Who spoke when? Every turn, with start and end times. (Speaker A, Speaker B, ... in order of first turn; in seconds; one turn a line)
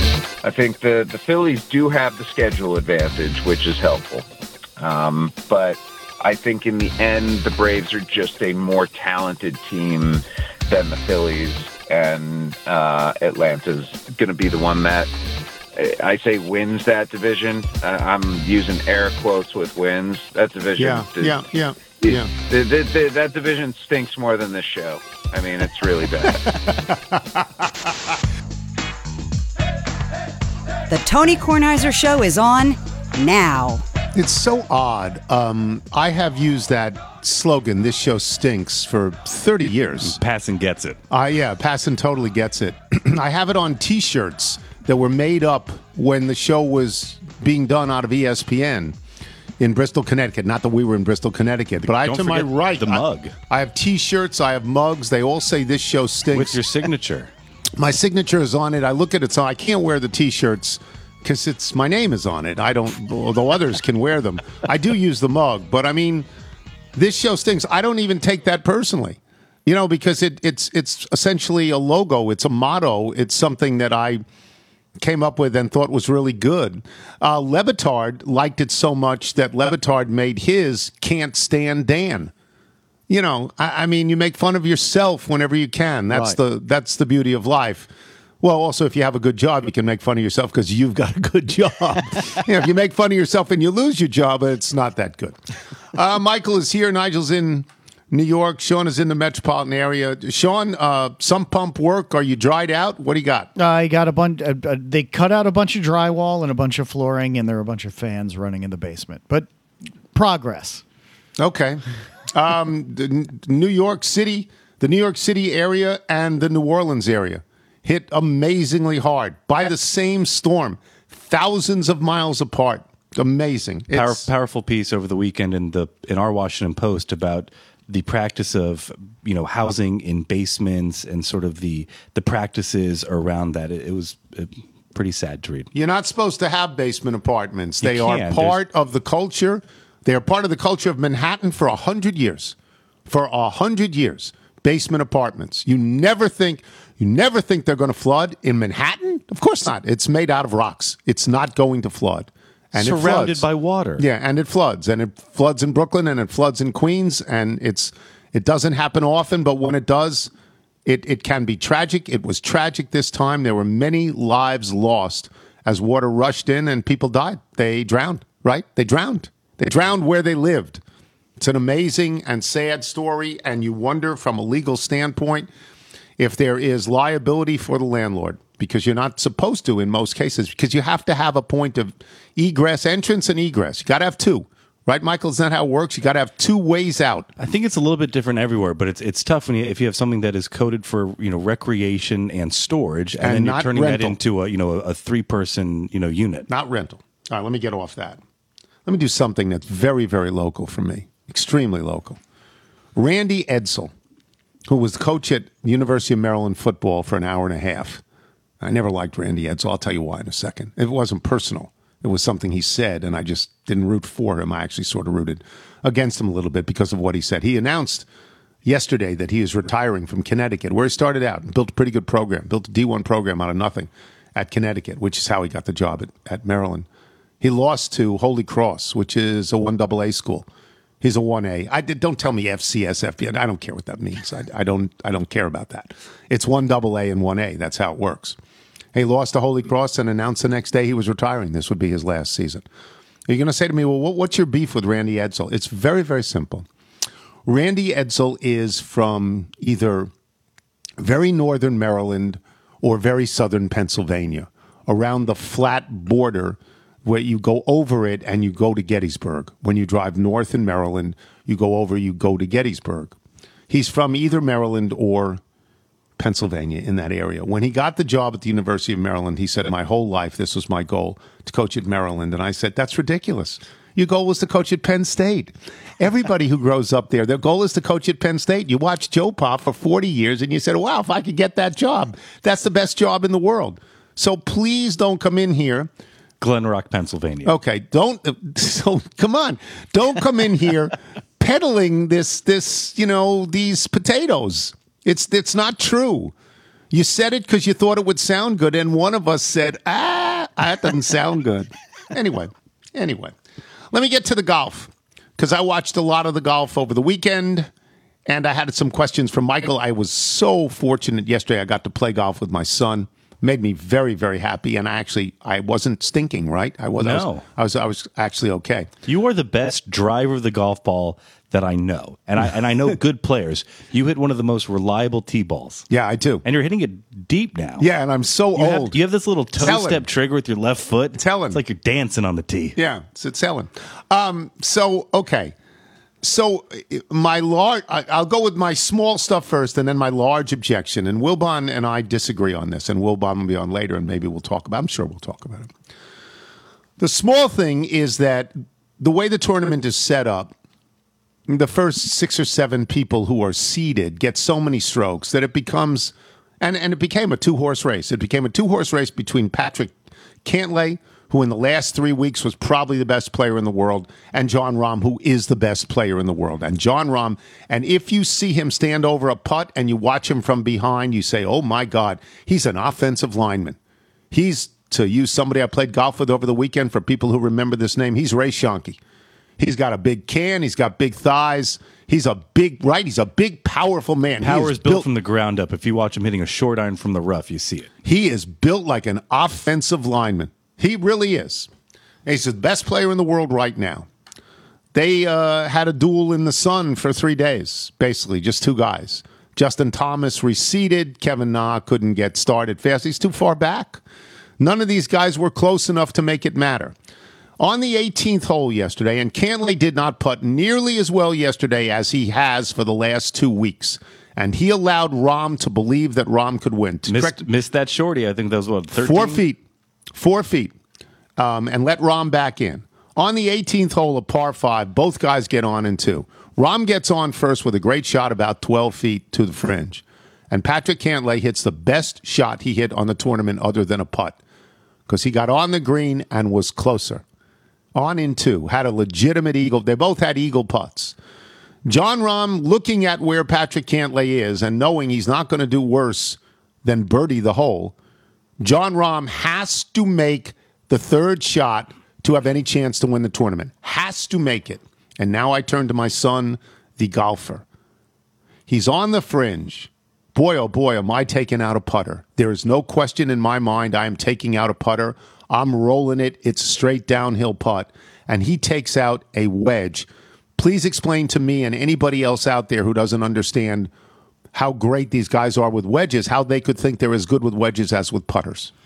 Speaker A: 0.4-15.1
Speaker A: 15.8-21.4
Speaker B: 20.8-22.3
Speaker A: 22.0-26.5
Speaker B: 26.4-28.1
Speaker C: 30.9-33.8
Speaker B: 34.1-40.2
Speaker D: 40.0-41.0
Speaker B: 41.1-49.0
Speaker B: 49.6-56.6
Speaker D: 51.9-53.3
Speaker D: 56.3-57.3
Speaker B: 57.8-66.3
Speaker B: 66.9-74.2
Speaker B: 75.0-82.3
Speaker B: 83.1-87.9
Speaker B: 88.4-95.4
Speaker B: 95.9-103.5
Speaker E: 103.5-109.5
Speaker E: 110.1-110.8
Speaker B: 111.4-124.3
Speaker D: 123.9-135.7
Speaker B: 135.7-142.6
Speaker D: 137.8-138.6
Speaker B: 143.1-153.4
Speaker D: 152.7-154.0
Speaker B: 154.0-160.3
Speaker B: 160.8-170.8
Speaker B: 171.4-175.5
Speaker B: 176.2-187.3
Speaker D: 187.4-196.5
Speaker B: 193.2-194.2
Speaker B: 196.5-198.2
Speaker B: 198.8-202.2
Speaker B: 202.9-203.9
Speaker B: 204.7-208.0
Speaker B: 208.6-218.1
Speaker B: 218.6-226.9
Speaker B: 227.4-230.5
Speaker B: 231.0-238.4
Speaker B: 238.9-242.6
Speaker B: 243.3-246.7
Speaker B: 247.4-250.1
Speaker B: 251.0-263.2
Speaker B: 263.7-265.4
Speaker B: 266.2-285.9
Speaker D: 286.4-287.5
Speaker B: 287.4-296.3
Speaker B: 296.9-303.4
Speaker B: 303.9-307.7
Speaker B: 308.2-318.9
Speaker D: 317.0-317.4
Speaker D: 319.0-325.9
Speaker B: 325.9-326.4
Speaker D: 326.4-327.9
Speaker B: 327.8-329.0
Speaker D: 328.5-332.8
Speaker B: 329.6-330.1
Speaker B: 331.2-331.6
Speaker B: 332.8-335.5
Speaker B: 336.2-345.7
Speaker B: 347.0-350.5
Speaker B: 351.5-373.8
Speaker B: 374.3-379.0
Speaker B: 379.6-385.1
Speaker D: 384.4-387.9
Speaker B: 388.0-391.7
Speaker B: 392.2-394.1
Speaker B: 394.9-404.0
Speaker B: 404.6-406.9
Speaker B: 407.6-417.4
Speaker D: 417.1-419.4
Speaker B: 418.9-419.6
Speaker B: 420.1-420.8
Speaker B: 421.4-434.4
Speaker B: 435.1-437.2
Speaker B: 437.9-441.1
Speaker B: 441.8-447.9
Speaker B: 448.6-457.6
Speaker B: 458.7-473.9
Speaker B: 474.5-478.7